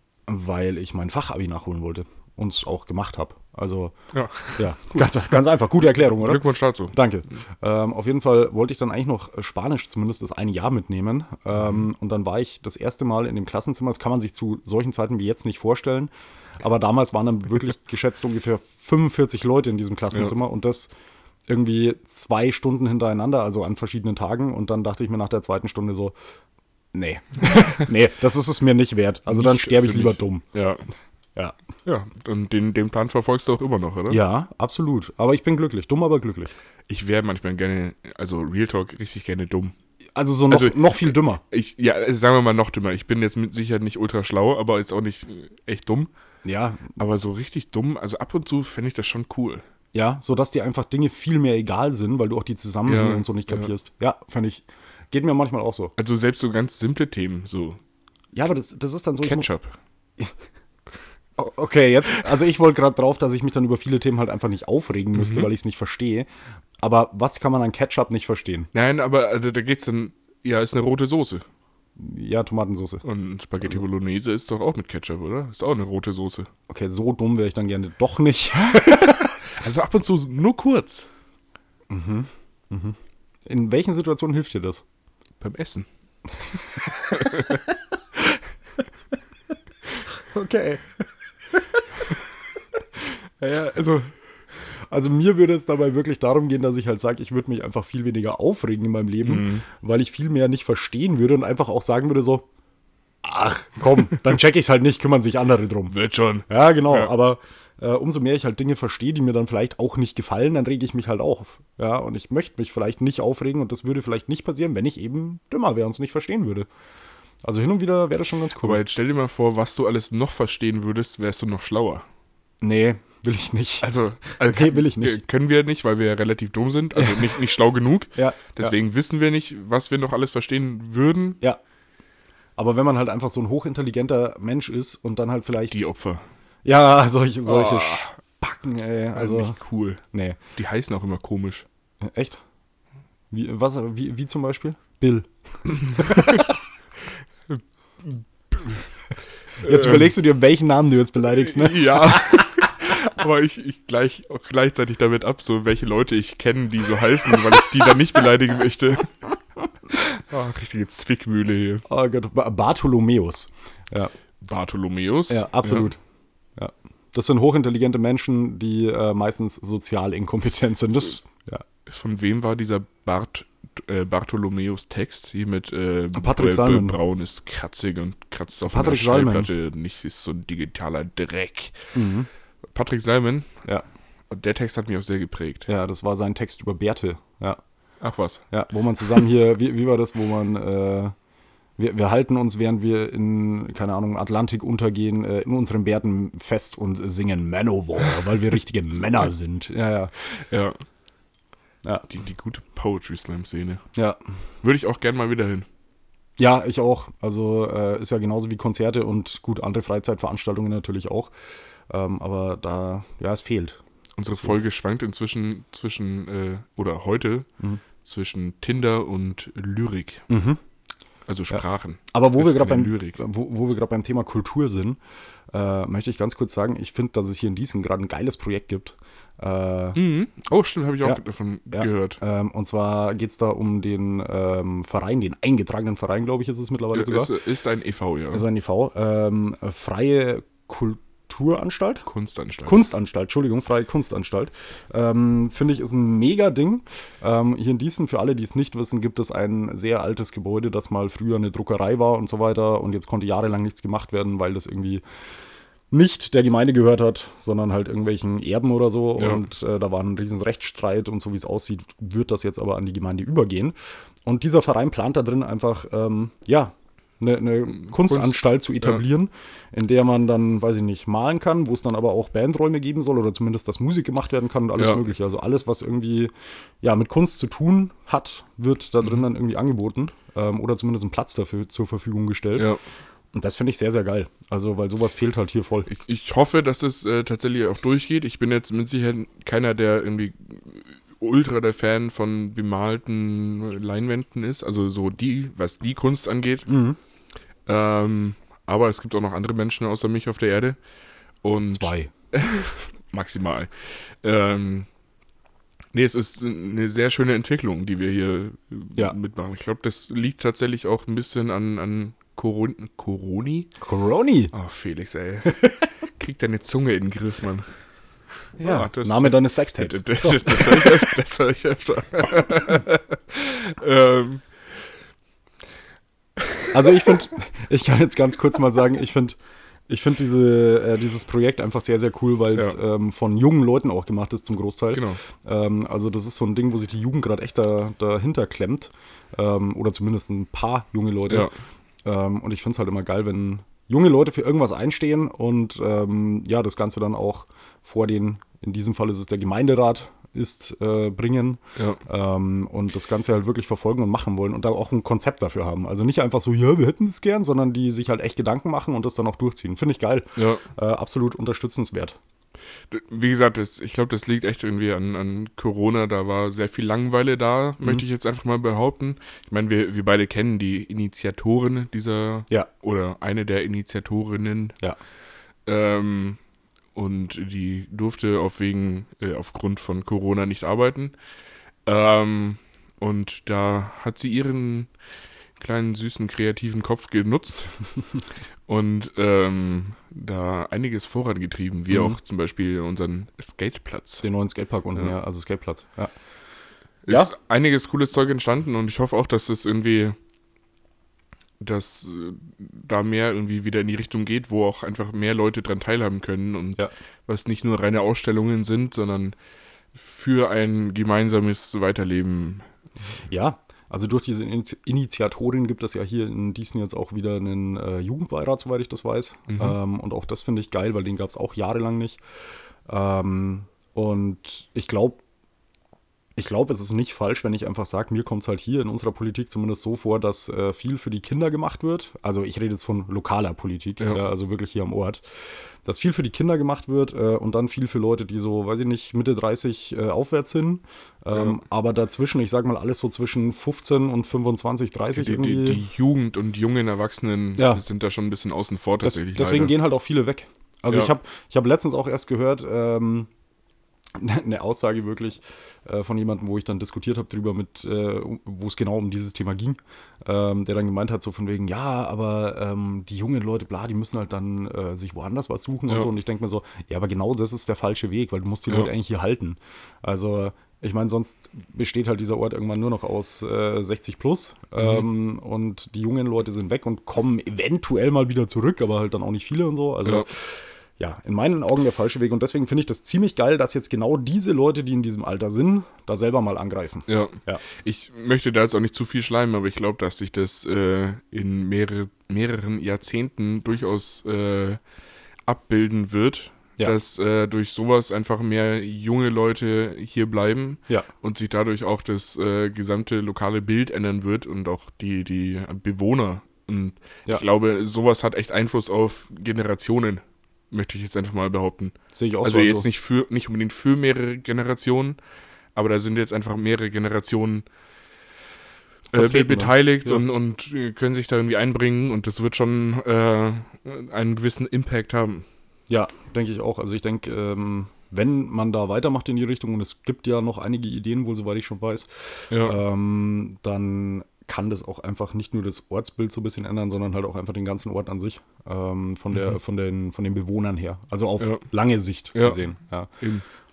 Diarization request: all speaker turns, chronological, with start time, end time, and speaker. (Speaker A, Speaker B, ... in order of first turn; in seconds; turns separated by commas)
Speaker A: 0.3-3.9, Speaker B: 4.1-5.1, Speaker A: 4.6-20.9, Speaker B: 6.1-7.0, Speaker A: 21.5-26.1, Speaker A: 26.9-30.4, Speaker B: 29.3-30.8, Speaker B: 31.9-34.2, Speaker A: 34.1-36.5, Speaker B: 36.9-39.7, Speaker A: 40.2-41.4, Speaker B: 40.5-46.1, Speaker A: 46.5-46.9, Speaker B: 47.0-49.6, Speaker A: 49.9-55.9, Speaker B: 52.9-53.7, Speaker B: 56.0-57.8, Speaker A: 58.3-59.5, Speaker B: 59.2-59.8, Speaker A: 61.4-66.3, Speaker B: 65.2-65.5, Speaker A: 66.8-68.7, Speaker B: 68.7-71.5, Speaker A: 72.0-73.0, Speaker B: 73.0-76.5, Speaker A: 76.7-79.3, Speaker B: 78.8-81.1, Speaker A: 81.9-84.8, Speaker B: 85.4-85.9, Speaker A: 87.0-87.6, Speaker B: 87.2-87.6, Speaker A: 90.3-90.9, Speaker A: 93.4-94.0, Speaker B: 93.5-94.1, Speaker A: 94.8-102.5, Speaker B: 99.2-99.7, Speaker A: 103.2-106.0, Speaker B: 105.9-107.1, Speaker A: 106.5-116.7, Speaker A: 117.4-118.8, Speaker B: 118.6-122.0, Speaker A: 122.6-125.2, Speaker B: 123.8-131.4, Speaker A: 128.2-128.8, Speaker A: 132.6-135.8, Speaker B: 135.7-136.3, Speaker A: 136.7-139.6, Speaker B: 137.4-138.1, Speaker B: 139.1-140.0, Speaker A: 140.1-140.4, Speaker B: 140.6-141.7, Speaker A: 142.0-142.4, Speaker A: 143.3-146.5, Speaker B: 147.5-148.9, Speaker A: 149.6-152.6, Speaker B: 149.6-150.2, Speaker B: 151.3-159.2, Speaker B: 159.9-161.8, Speaker A: 161.9-164.1, Speaker B: 164.4-165.9, Speaker A: 165.3-166.0, Speaker A: 166.6-171.6, Speaker B: 171.9-181.8, Speaker A: 176.1-177.0, Speaker A: 178.6-179.5, Speaker A: 181.9-182.3, Speaker B: 182.6-183.5, Speaker B: 184.3-185.7, Speaker A: 185.7-187.6, Speaker B: 188.0-188.4, Speaker A: 188.5-191.1, Speaker A: 191.8-200.1, Speaker B: 200.4-200.8, Speaker B: 202.1-203.8, Speaker B: 204.6-205.7, Speaker A: 206.4-211.3, Speaker A: 211.9-213.8, Speaker B: 214.2-217.5, Speaker B: 218.0-220.2, Speaker A: 220.3-220.6, Speaker B: 221.3-223.2, Speaker A: 221.5-225.0, Speaker A: 225.5-230.0, Speaker B: 229.9-232.2, Speaker A: 231.7-237.3, Speaker B: 236.9-238.4, Speaker A: 238.3-242.1, Speaker B: 242.1-242.9, Speaker A: 242.7-255.0, Speaker A: 255.9-276.3, Speaker B: 259.2-259.4, Speaker B: 267.7-269.0, Speaker B: 274.8-275.0, Speaker A: 276.8-282.7, Speaker B: 282.6-282.8, Speaker A: 283.3-285.9, Speaker B: 285.9-296.7, Speaker A: 296.7-297.0, Speaker B: 297.7-300.8, Speaker B: 301.4-304.9, Speaker A: 301.7-302.1, Speaker B: 305.9-313.7, Speaker A: 313.8-314.5, Speaker B: 314.5-317.7, Speaker A: 318.6-321.1, Speaker B: 318.6-324.5, Speaker A: 326.7-329.4, Speaker A: 329.9-341.5, Speaker B: 334.9-335.2, Speaker B: 341.3-341.5, Speaker A: 342.1-362.2, Speaker B: 351.8-352.0, Speaker B: 360.4-360.6, Speaker B: 362.9-374.8, Speaker B: 375.7-376.4, Speaker B: 376.9-381.2, Speaker B: 381.9-384.9, Speaker B: 385.6-387.8, Speaker B: 388.7-394.2, Speaker A: 391.9-392.2, Speaker A: 394.2-396.1, Speaker B: 397.1-400.2, Speaker A: 397.1-397.3, Speaker B: 401.6-409.4, Speaker B: 409.9-412.7, Speaker A: 413.3-422.2, Speaker B: 419.5-419.8, Speaker A: 422.9-425.2, Speaker A: 426.4-435.2, Speaker A: 435.8-445.8, Speaker B: 441.3-441.6, Speaker B: 445.1-449.7, Speaker A: 447.6-447.8, Speaker A: 449.0-453.3, Speaker A: 454.2-487.6, Speaker B: 474.8-475.1, Speaker B: 487.1-494.8, Speaker B: 495.5-515.2, Speaker A: 512.1-512.9, Speaker B: 515.8-517.6, Speaker A: 519.1-520.2, Speaker B: 519.1-525.5, Speaker A: 525.9-543.1, Speaker B: 532.5-532.8, Speaker B: 541.4-541.6